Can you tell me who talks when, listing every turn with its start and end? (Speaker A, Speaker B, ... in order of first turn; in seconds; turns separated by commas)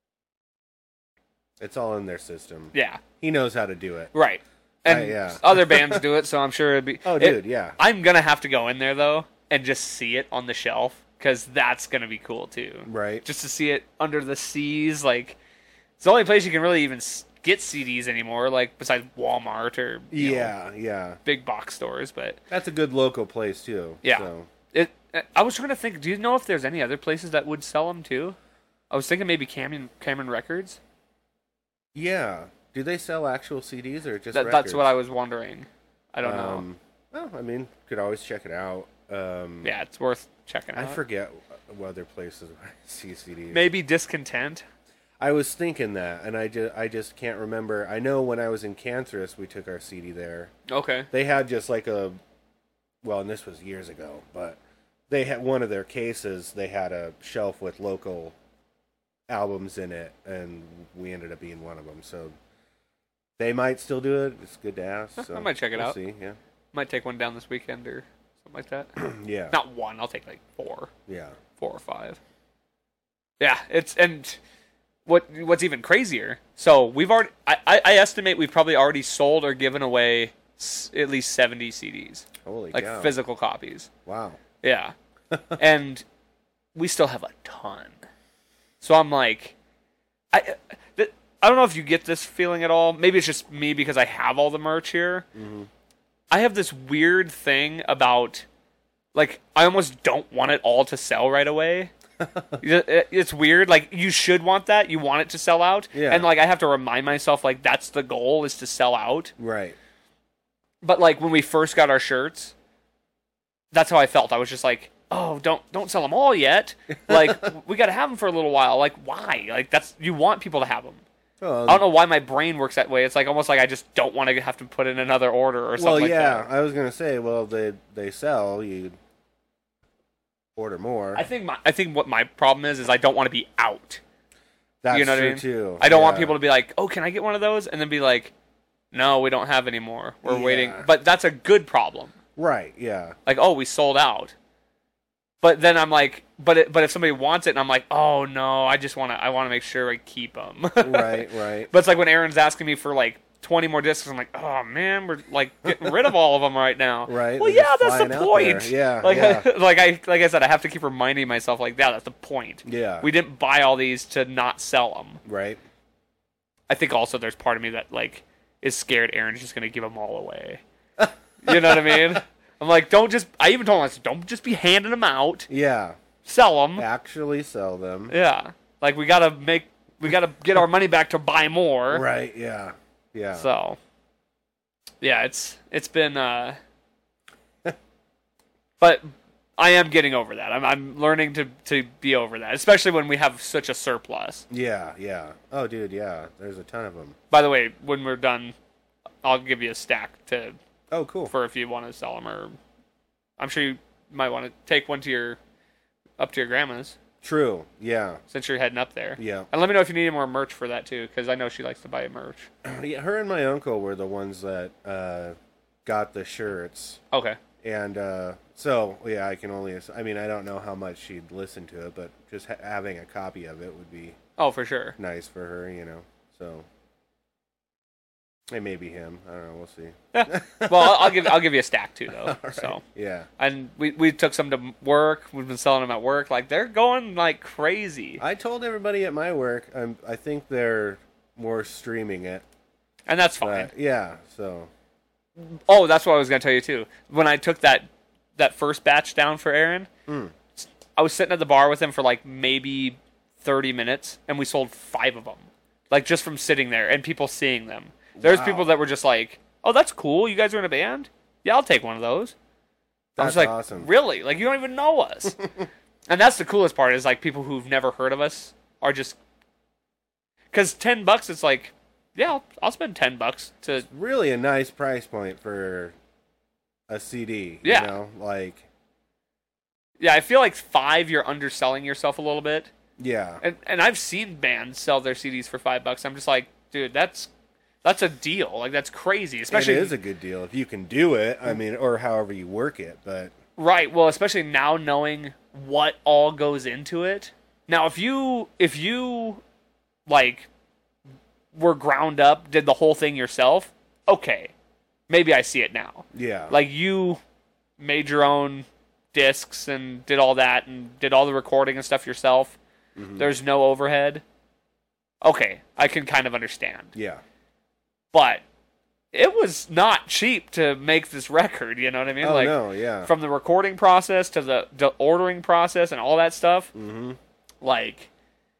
Speaker A: 1.6-4.1, Speaker B: 2.7-3.0, Speaker B: 4.1-15.4, Speaker A: 4.8-6.0, Speaker A: 7.0-7.8, Speaker A: 12.8-13.2, Speaker B: 16.0-20.5, Speaker A: 20.1-21.2, Speaker B: 21.2-22.4, Speaker A: 22.5-24.5, Speaker B: 24.0-28.4, Speaker B: 28.9-30.8, Speaker A: 31.9-34.9, Speaker B: 34.3-36.6, Speaker A: 36.2-39.7, Speaker B: 39.6-41.0, Speaker A: 40.7-43.6, Speaker B: 43.5-44.6, Speaker A: 45.2-50.5, Speaker B: 50.7-51.1, Speaker A: 51.1-52.2, Speaker A: 53.0-54.6, Speaker A: 55.1-58.3, Speaker A: 59.3-62.3, Speaker A: 63.4-66.4, Speaker B: 65.2-66.0, Speaker B: 66.7-68.9, Speaker A: 69.0-69.5, Speaker B: 69.5-70.9, Speaker A: 71.1-71.3, Speaker B: 71.6-72.2, Speaker B: 73.4-74.4, Speaker B: 75.0-83.9, Speaker A: 82.4-83.1, Speaker A: 84.0-84.4, Speaker B: 84.6-84.9, Speaker A: 85.3-85.5, Speaker B: 85.6-86.0, Speaker B: 86.8-88.0, Speaker B: 88.8-89.5, Speaker B: 90.3-95.2, Speaker A: 95.3-95.7, Speaker B: 96.3-98.5, Speaker B: 99.1-101.9, Speaker A: 102.2-102.6, Speaker B: 102.6-109.3, Speaker A: 105.9-106.3, Speaker A: 109.4-109.8, Speaker B: 110.8-112.5, Speaker B: 113.7-121.0, Speaker A: 117.0-117.5, Speaker A: 121.4-121.9, Speaker B: 121.7-126.5, Speaker A: 125.8-128.9, Speaker A: 130.6-131.2, Speaker B: 131.1-134.0, Speaker A: 134.8-136.4, Speaker B: 134.9-138.3, Speaker B: 138.9-142.1, Speaker A: 140.2-140.9, Speaker A: 142.3-143.1, Speaker B: 143.2-144.3, Speaker B: 145.4-165.2, Speaker A: 150.8-151.7, Speaker A: 155.7-156.1, Speaker A: 157.1-159.5, Speaker A: 162.6-163.1, Speaker A: 165.2-165.6, Speaker B: 166.7-170.6, Speaker A: 171.0-172.2, Speaker B: 171.4-175.5, Speaker A: 175.5-176.0, Speaker B: 176.2-176.8, Speaker A: 176.8-178.1, Speaker B: 178.1-182.0, Speaker A: 181.9-183.5, Speaker B: 183.3-183.8, Speaker B: 185.0-186.6, Speaker B: 188.8-194.4, Speaker A: 194.5-197.2, Speaker B: 197.3-198.5, Speaker B: 199.2-200.6, Speaker A: 200.9-201.3, Speaker B: 201.3-202.6, Speaker B: 203.4-205.4, Speaker B: 206.2-207.0, Speaker A: 207.2-208.2, Speaker B: 208.3-212.5, Speaker A: 209.2-209.5, Speaker A: 212.6-217.0, Speaker B: 217.1-217.4, Speaker A: 217.6-224.2, Speaker B: 224.4-224.9, Speaker A: 225.0-226.7, Speaker A: 228.5-231.4, Speaker B: 230.1-232.8, Speaker A: 232.1-233.3, Speaker B: 233.4-238.2, Speaker A: 238.2-242.4, Speaker B: 243.1-243.7, Speaker A: 243.4-244.7, Speaker B: 245.4-249.9, Speaker A: 250.1-250.3, Speaker B: 250.6-262.3, Speaker A: 258.1-258.7, Speaker A: 263.2-263.9, Speaker B: 263.2-265.4, Speaker B: 266.1-269.2, Speaker B: 270.5-273.9, Speaker A: 273.9-275.9, Speaker A: 276.9-278.6, Speaker B: 277.6-277.9, Speaker B: 280.0-282.7, Speaker A: 283.0-283.4, Speaker B: 283.4-287.3, Speaker B: 287.8-289.9, Speaker A: 289.5-293.3, Speaker B: 293.6-299.4, Speaker B: 300.1-300.5, Speaker B: 301.5-304.5, Speaker B: 305.1-307.2, Speaker A: 306.1-306.6, Speaker B: 307.8-312.6, Speaker A: 312.9-313.3, Speaker B: 313.2-314.2, Speaker B: 315.2-316.9, Speaker A: 316.9-317.2, Speaker B: 318.1-318.4, Speaker B: 319.1-326.7, Speaker A: 322.2-323.1, Speaker A: 326.7-327.2, Speaker B: 327.6-328.1